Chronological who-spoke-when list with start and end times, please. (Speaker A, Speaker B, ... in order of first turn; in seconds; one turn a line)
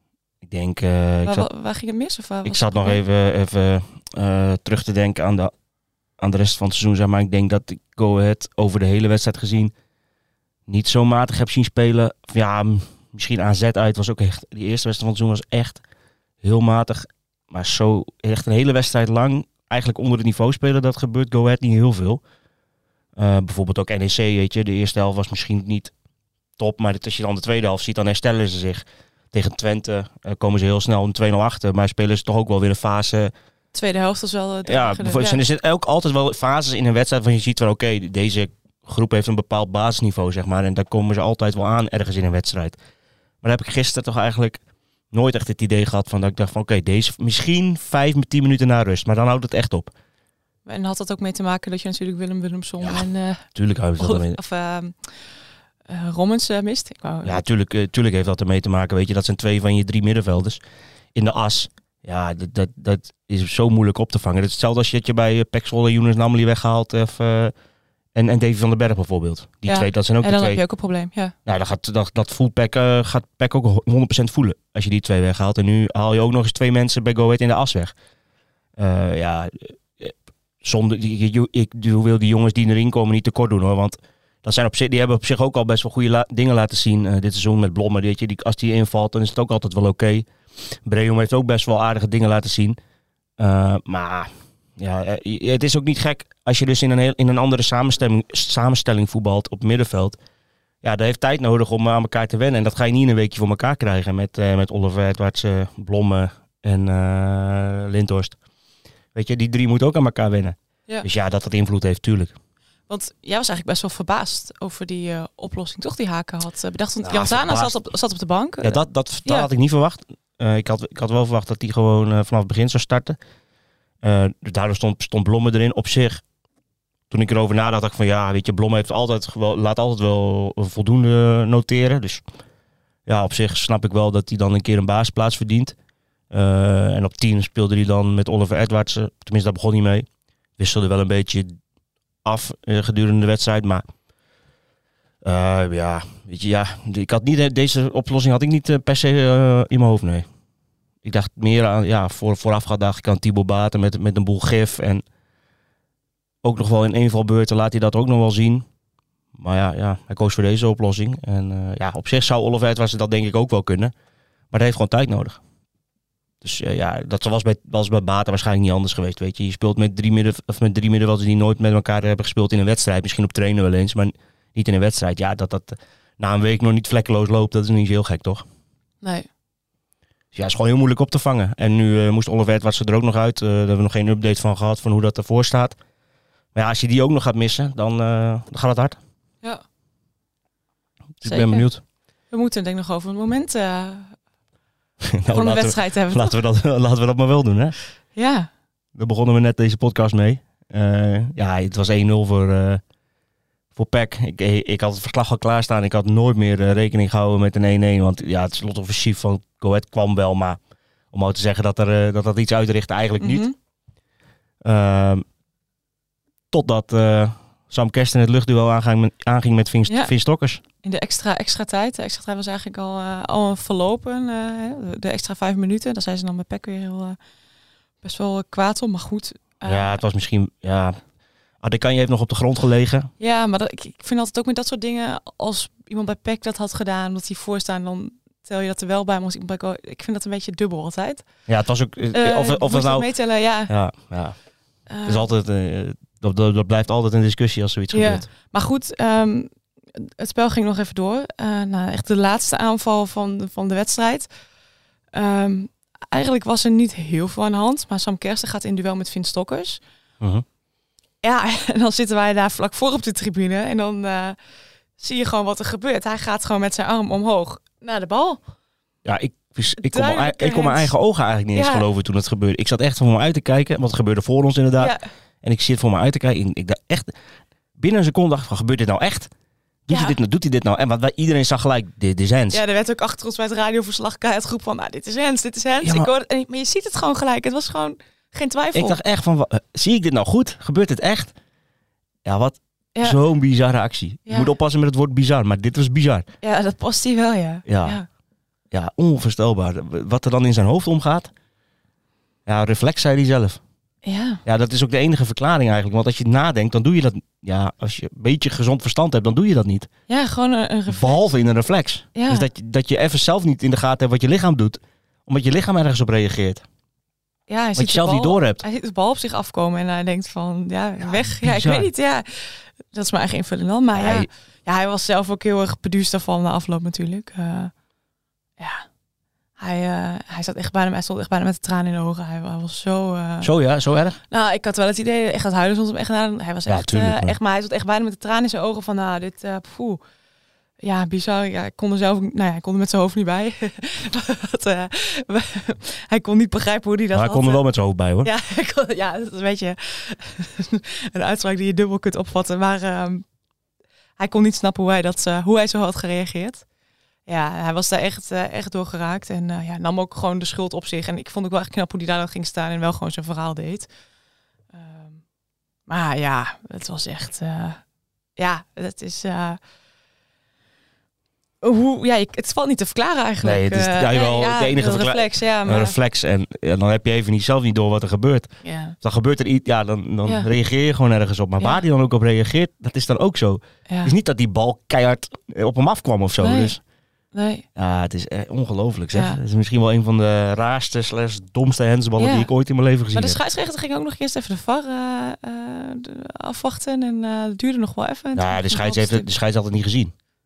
Speaker A: 0.4-1.5
Speaker B: 1.2-3.0
Speaker A: 2.4-5.5
Speaker A: 6.2-9.7
Speaker A: 10.7-15.8
Speaker A: 16.4-22.2
Speaker A: 23.1-25.9
Speaker A: 26.6-33.3
Speaker B: 33.7-35.4
Speaker A: 34.6-42.8
Speaker A: 43.4-44.6
Speaker A: 45.1-49.9
Speaker B: 50.6-55.1
Speaker A: 52.8-54.4
Speaker B: 55.9-57.4
Speaker A: 57.2-60.6
Speaker A: 61.1-67.5
Speaker A: 68.1-70.6
Speaker B: 69.7-71.3
Speaker A: 71.5-77.9
Speaker A: 78.8-90.3
Speaker A: 90.8-92.8
Speaker A: 93.4-100.2
Speaker A: 100.8-108.4
Speaker A: 109.1-112.3
Speaker B: 112.9-119.5
Speaker A: 117.0-117.8
Speaker A: 118.6-123.2
Speaker A: 124.0-126.2
Speaker A: 127.1-132.2
Speaker A: 133.1-135.7
Speaker A: 136.3-140.1
Speaker A: 140.6-141.6
Speaker A: 142.2-143.8
Speaker A: 145.2-150.2
Speaker A: 151.0-155.0
Speaker A: 156.4-158.7
Speaker A: 159.4-163.9
Speaker A: 164.5-165.4
Speaker A: 166.4-178.4
Speaker B: 179.0-179.3
Speaker A: 180.3-185.8
Speaker A: 186.5-189.0
Speaker A: 191.2-191.8
Speaker B: 191.2-191.7
Speaker B: 192.3-194.2
Speaker A: 195.0-197.8
Speaker B: 195.3-196.4
Speaker B: 198.1-198.5
Speaker A: 198.9-202.8
Speaker A: 203.7-210.6
Speaker A: 211.1-213.5
Speaker B: 213.2-213.5
Speaker A: 214.6-215.2
Speaker A: 216.5-220.6
Speaker B: 219.9-220.1
Speaker B: 220.8-227.2
Speaker B: 228.0-229.9
Speaker A: 229.6-231.0
Speaker A: 231.6-233.1
Speaker B: 233.2-241.2
Speaker A: 241.5-243.1
Speaker B: 242.1-243.7
Speaker A: 243.7-244.3
Speaker B: 244.9-245.3
Speaker A: 245.0-248.2
Speaker B: 247.9-254.3
Speaker B: 255.1-259.8
Speaker B: 261.2-264.4
Speaker B: 265.0-268.4
Speaker A: 269.0-277.1
Speaker B: 269.8-270.9
Speaker B: 271.5-271.9
Speaker A: 277.8-279.3
Speaker A: 279.9-282.6
Speaker B: 279.9-280.2
Speaker B: 282.5-289.0
Speaker A: 285.8-286.1
Speaker A: 288.7-291.3
Speaker A: 292.2-296.2
Speaker B: 296.4-298.1
Speaker A: 297.6-298.0
Speaker A: 298.7-301.3
Speaker A: 302.4-303.6
Speaker B: 304.0-304.4
Speaker A: 304.4-309.9
Speaker B: 310.1-311.3
Speaker A: 310.9-316.6
Speaker B: 312.1-312.5
Speaker B: 317.5-327.7
Speaker A: 317.8-318.6
Speaker A: 321.0-321.9
Speaker A: 323.9-324.3
Speaker B: 328.6-328.8
Speaker B: 329.6-333.5
Speaker A: 333.4-334.2
Speaker B: 334.3-340.0
Speaker A: 336.7-337.4
Speaker B: 340.8-347.6
Speaker A: 347.1-348.3
Speaker B: 348.2-353.2
Speaker B: 354.2-356.6
Speaker B: 357.3-363.9
Speaker B: 364.7-365.2
Speaker B: 365.9-367.8
Speaker B: 368.4-369.6
Speaker B: 371.6-376.0
Speaker A: 373.4-386.8
Speaker B: 378.6-378.9
Speaker B: 380.2-380.5
Speaker B: 383.9-384.1
Speaker B: 386.4-386.8
Speaker B: 387.3-387.6
Speaker A: 387.8-393.4
Speaker B: 389.1-389.4
Speaker B: 392.2-392.5
Speaker B: 393.1-399.3
Speaker A: 398.3-400.1